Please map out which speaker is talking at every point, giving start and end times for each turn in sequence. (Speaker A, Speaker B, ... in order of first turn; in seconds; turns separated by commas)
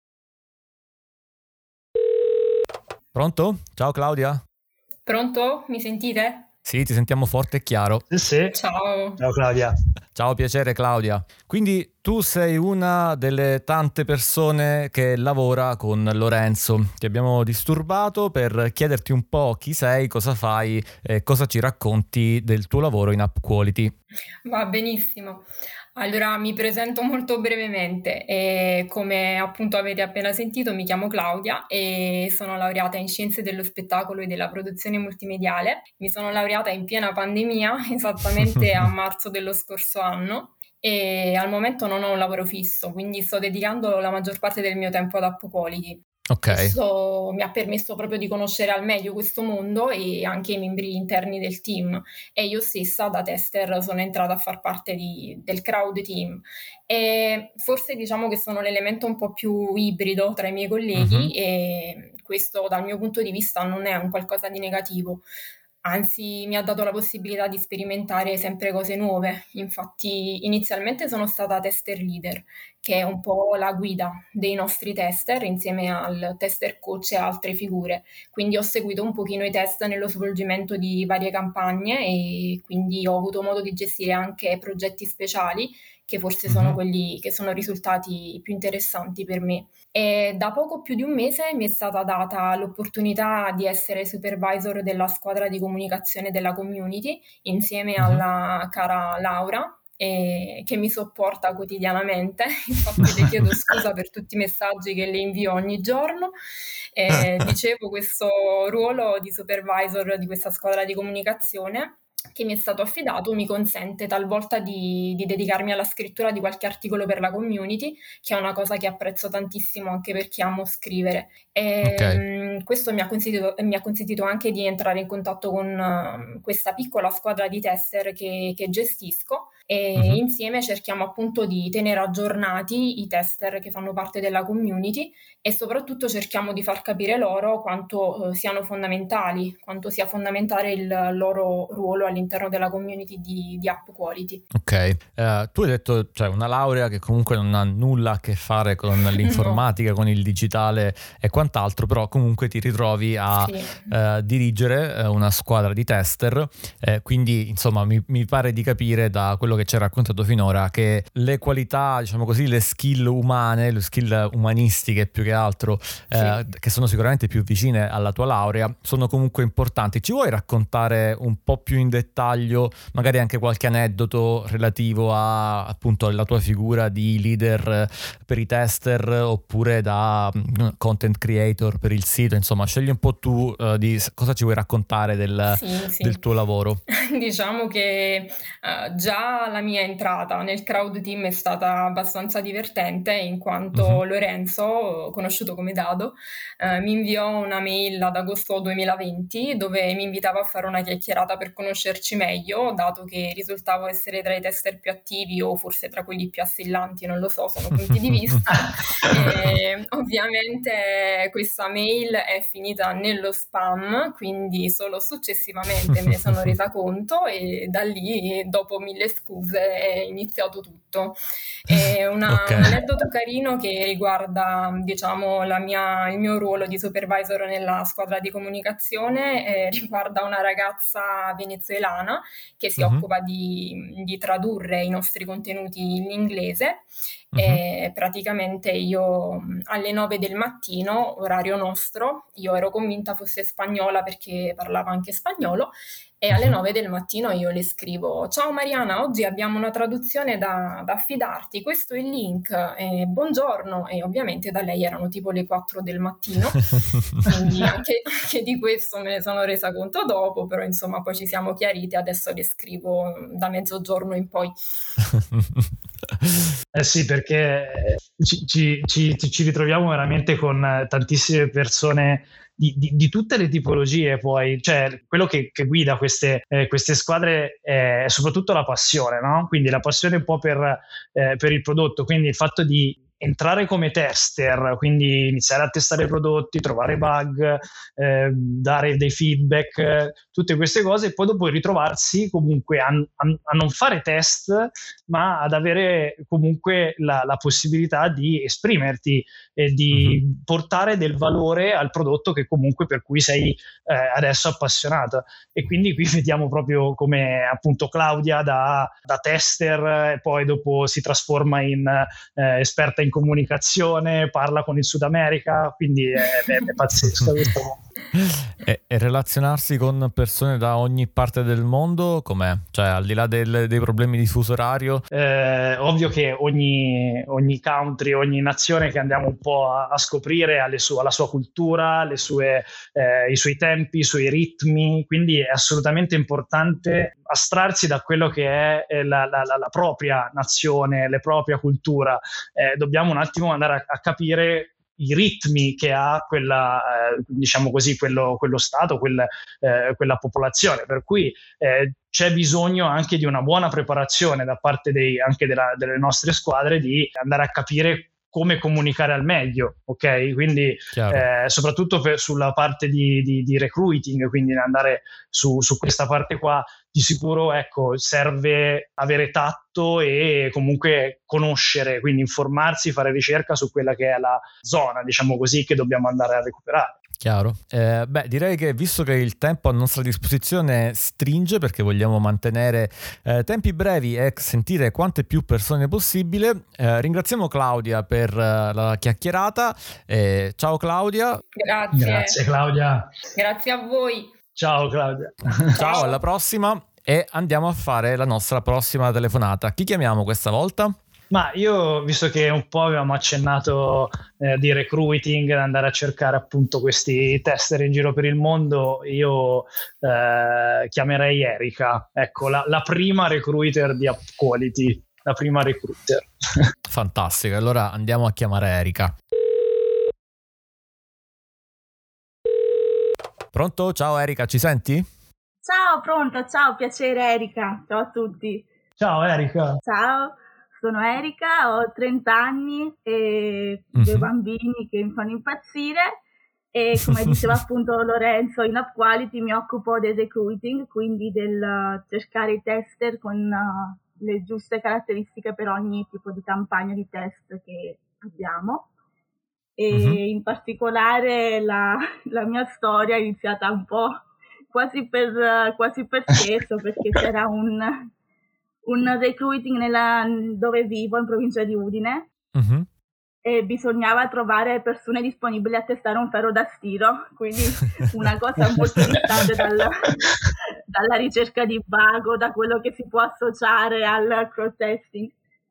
Speaker A: 3.1-4.4, Speaker B: 5.1-6.5, Speaker A: 6.7-8.0, Speaker C: 8.1-8.5, Speaker B: 8.5-9.2, Speaker C: 9.2-9.7, Speaker A: 10.2-23.9, Speaker B: 24.4-65.2, Speaker A: 46.3-46.8, Speaker A: 61.0-61.3, Speaker B: 65.8-106.4, Speaker A: 86.5-86.8, Speaker B: 107.0-144.4, Speaker A: 121.8-122.2, Speaker A: 144.5-186.8, Speaker B: 149.2-149.6, Speaker B: 153.3-153.9, Speaker B: 185.5-186.2, Speaker B: 186.9-264.6, Speaker A: 193.8-194.0, Speaker A: 221.7-222.7, Speaker A: 232.8-233.1, Speaker A: 237.3-237.6, Speaker C: 266.7-317.8, Speaker A: 299.9-300.2, Speaker A: 318.1-325.0, Speaker C: 325.1-377.0, Speaker A: 360.9-361.3, Speaker A: 377.2-391.4, Speaker B: 391.6-392.4, Speaker C: 391.9-393.1, Speaker B: 393.3-394.3, Speaker C: 394.6-396.0, Speaker B: 395.8-396.2, Speaker A: 395.8-401.0, Speaker C: 401.3-416.7, Speaker A: 416.9-419.1, Speaker A: 423.5-425.1, Speaker D: 425.7-428.7, Speaker C: 429.0-429.8, Speaker D: 429.9-436.2, Speaker A: 433.9-434.3, Speaker D: 436.7-448.9, Speaker D: 449.8-458.1, Speaker A: 449.9-450.2, Speaker D: 458.9-462.3, Speaker A: 462.6-462.9, Speaker D: 463.4-470.2, Speaker D: 470.9-475.3